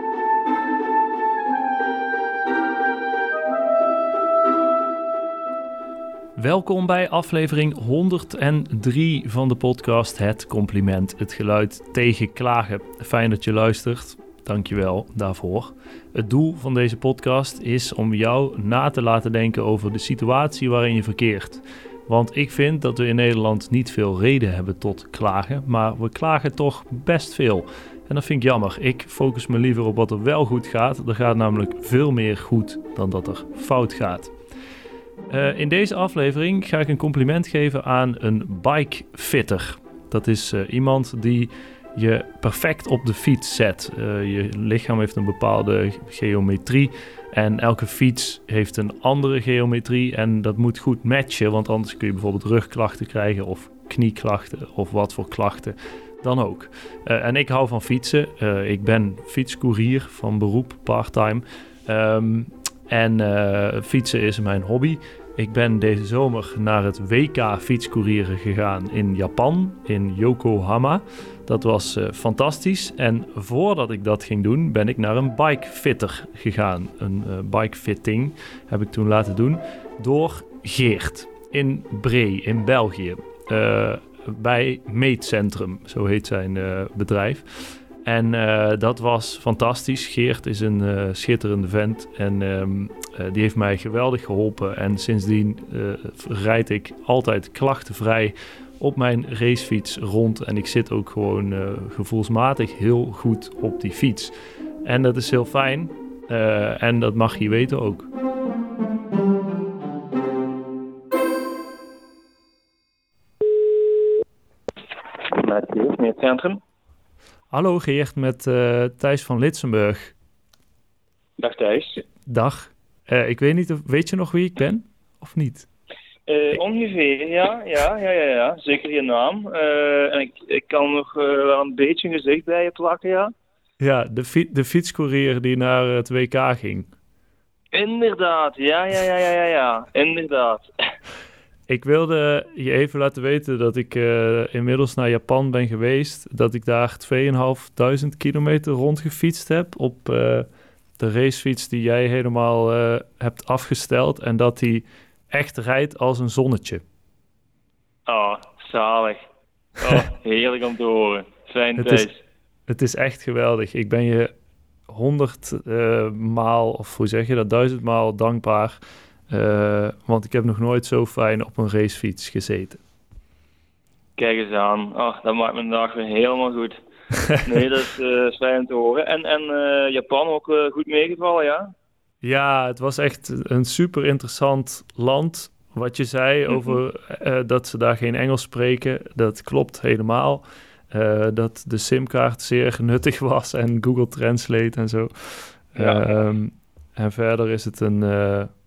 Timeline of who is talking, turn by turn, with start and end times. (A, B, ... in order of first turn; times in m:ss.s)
0:06.4-0:34.3 A
0:35.3-1:48.1 A
1:55.2-1:56.6 B
1:57.5-2:00.1 A
2:01.4-2:02.0 B
2:02.2-2:05.7 A
2:06.3-2:13.3 B
2:13.8-2:16.9 A
2:17.7-2:20.6 B
2:21.7-2:30.5 A
2:31.0-2:36.8 A
2:38.1-2:39.2 B
2:39.8-2:42.1 B
2:41.8-2:42.1 A
2:42.7-2:44.3 A
2:44.9-2:52.8 A
2:54.2-2:56.8 B
2:57.4-3:01.7 B
3:02.2-3:18.5 A
3:06.5-3:06.8 B
3:15.8-3:16.0 B